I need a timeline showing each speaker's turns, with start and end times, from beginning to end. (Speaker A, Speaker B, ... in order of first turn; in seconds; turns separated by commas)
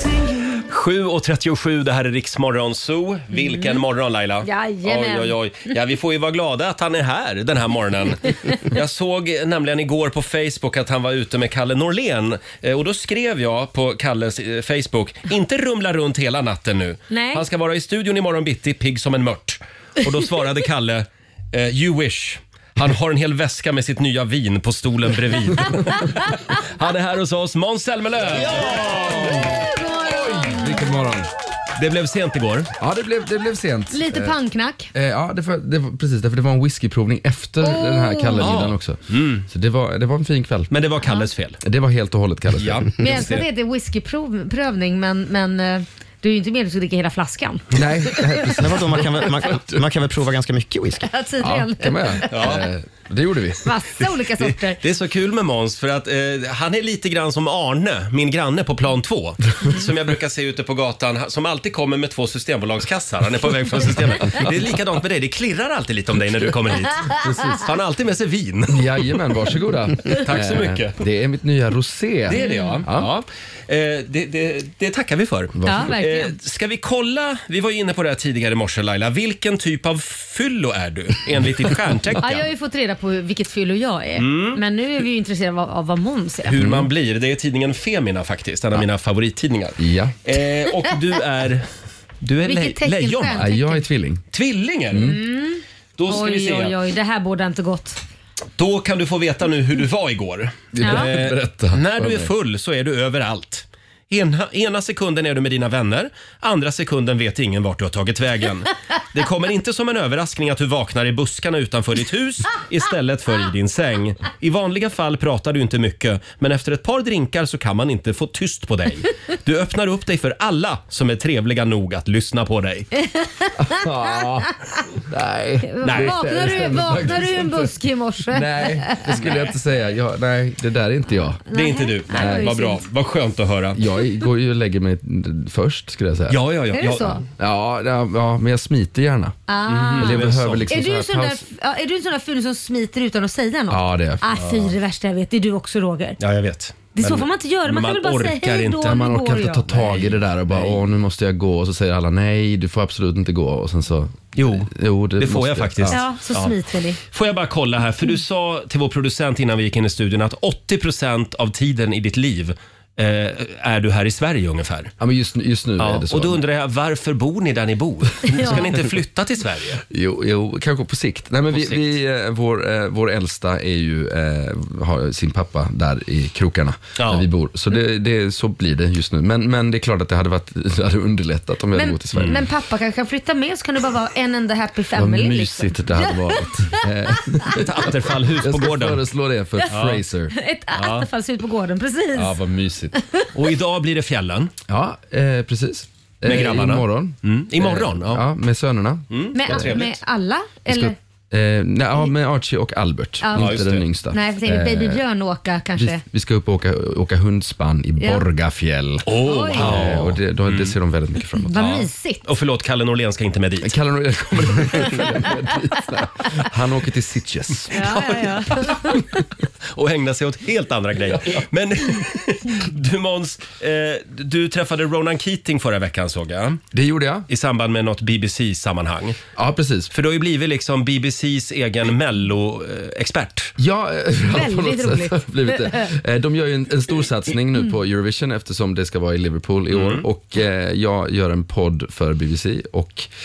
Speaker A: 0.7-29.6, Speaker B: 3.4-3.8, Speaker B: 4.4-5.4, Speaker B: 17.1-17.4, Speaker C: 28.4-31.3, Speaker B: 29.5-30.9, Speaker A: 31.8-32.7, Speaker C: 32.8-34.4, Speaker B: 33.9-34.9, Speaker C: 34.9-40.7, Speaker B: 37.6-38.5, Speaker A: 38.4-39.5, Speaker A: 40.7-41.6, Speaker B: 41.0-41.3, Speaker C: 41.6-42.9, Speaker A: 42.5-43.5, Speaker B: 43.0-48.6, Speaker C: 47.7-49.8, Speaker D: 48.5-51.1, Speaker B: 51.0-52.6, Speaker C: 51.4-53.7, Speaker A: 52.3-52.7, Speaker B: 53.6-54.8, Speaker A: 54.4-69.1, Speaker C: 67.2-67.7, Speaker C: 68.7-73.1, Speaker A: 70.1-71.0, Speaker A: 72.3-82.5, Speaker B: 72.3-72.8, Speaker C: 75.5-75.9, Speaker B: 75.7-76.3, Speaker B: 82.2-86.6, Speaker A: 84.2-84.6, Speaker A: 86.5-91.7, Speaker C: 86.6-86.9, Speaker C: 89.8-90.2, Speaker A: 92.2-93.5, Speaker B: 92.4-93.9, Speaker C: 93.3-94.2, Speaker A: 94.3-95.2, Speaker C: 94.9-95.2, Speaker B: 95.0-98.0, Speaker A: 96.0-96.8, Speaker A: 98.6-122.9, Speaker C: 100.7-102.3, Speaker B: 100.8-101.1, Speaker B: 123.0-124.4, Speaker C: 123.6-124.5, Speaker C: 125.1-127.8, Speaker B: 125.7-129.3, Speaker A: 125.8-126.6, Speaker C: 128.3-131.5, Speaker A: 129.1-129.4, Speaker B: 131.5-132.8, Speaker A: 131.5-133.8, Speaker C: 132.1-132.6, Speaker C: 133.8-136.4, Speaker A: 136.3-137.2, Speaker B: 136.7-137.2, Speaker C: 137.4-139.4, Speaker B: 139.5-146.2, Speaker A: 139.7-140.7, Speaker C: 139.9-141.4, Speaker C: 143.7-144.3, Speaker A: 144.4-144.7, Speaker A: 146.2-149.1, Speaker B: 146.9-149.9, Speaker C: 148.8-156.0, Speaker A: 149.8-150.8, Speaker A: 154.3-156.6, Speaker B: 155.9-157.0, Speaker A: 157.1-164.9, Speaker C: 165.0-166.4, Speaker A: 165.8-169.8, Speaker B: 168.3-168.6, Speaker C: 169.9-182.4, Speaker A: 171.5-172.0, Speaker A: 177.0-177.3, Speaker B: 181.7-187.5, Speaker A: 182.1-182.4, Speaker C: 184.9-190.3, Speaker A: 187.5-189.0, Speaker A: 189.7-190.0, Speaker B: 190.3-192.4, Speaker A: 190.8-191.1, Speaker C: 192.1-193.0, Speaker B: 192.9-193.3, Speaker A: 193.3-194.5, Speaker C: 194.7-199.8, Speaker A: 196.2-198.2, Speaker A: 199.1-200.0, Speaker B: 199.3-201.0, Speaker C: 200.7-205.0, Speaker B: 203.2-206.0, Speaker A: 203.3-203.9, Speaker C: 205.8-211.6, Speaker B: 208.0-208.3, Speaker A: 209.1-210.8, Speaker B: 209.2-209.9, Speaker B: 211.5-212.2, Speaker A: 211.5-213.8, Speaker C: 213.6-217.9, Speaker A: 217.7-219.0, Speaker B: 217.7-219.2, Speaker A: 219.7-226.6, Speaker C: 221.1-221.4, Speaker C: 226.7-227.3, Speaker A: 227.3-229.2, Speaker C: 229.3-229.9, Speaker A: 229.9-233.5, Speaker C: 233.6-243.1, Speaker B: 234.3-235.9, Speaker A: 239.7-240.1